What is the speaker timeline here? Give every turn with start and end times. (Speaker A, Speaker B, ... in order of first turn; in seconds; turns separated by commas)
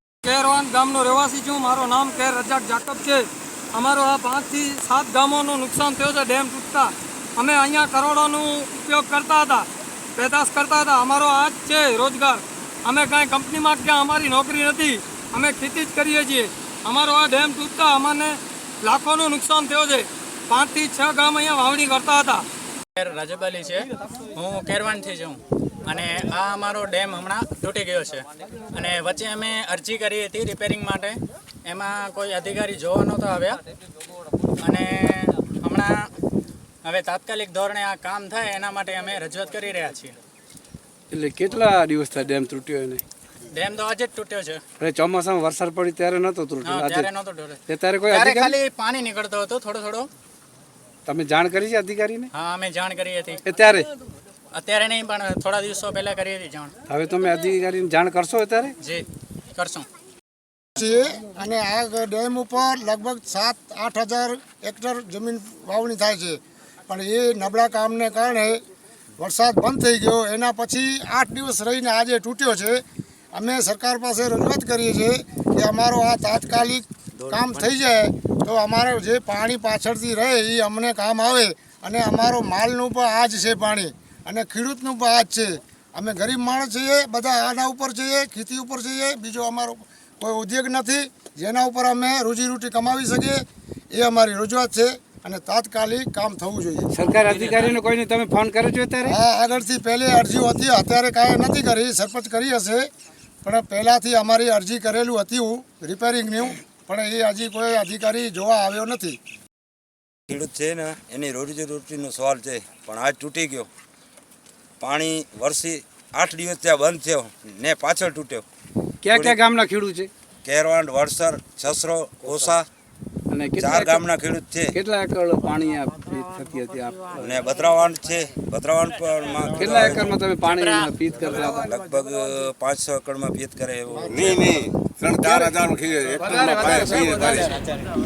Speaker A: 0.2-22.4, Speaker B: 22.9-33.6, Speaker B: 34.6-36.1, Speaker B: 36.8-40.2, Speaker C: 41.1-43.0, Speaker B: 43.5-44.6, Speaker C: 44.8-47.1, Speaker B: 46.6-50.1, Speaker C: 47.7-48.5, Speaker C: 51.0-52.3, Speaker B: 52.3-53.4, Speaker C: 53.4-53.9, Speaker B: 54.5-56.7, Speaker C: 56.9-58.8, Speaker B: 58.8-59.9, Speaker D: 60.8-68.6, Speaker D: 69.2-72.8, Speaker D: 73.3-96.9, Speaker C: 96.9-99.2, Speaker D: 99.0-102.9, Speaker D: 103.4-109.2, Speaker E: 110.3-113.7, Speaker E: 114.8-118.5, Speaker C: 119.0-120.1, Speaker E: 119.1-119.4, Speaker E: 120.4-122.7, Speaker C: 123.3-124.0, Speaker E: 123.6-124.7, Speaker C: 124.7-127.4, Speaker E: 127.2-130.1, Speaker C: 129.6-131.7, Speaker B: 130.5-130.9, Speaker E: 131.5-134.4, Speaker D: 133.9-134.7, Speaker F: 134.1-137.6, Speaker C: 135.2-135.6, Speaker A: 136.2-137.5, Speaker C: 136.2-137.2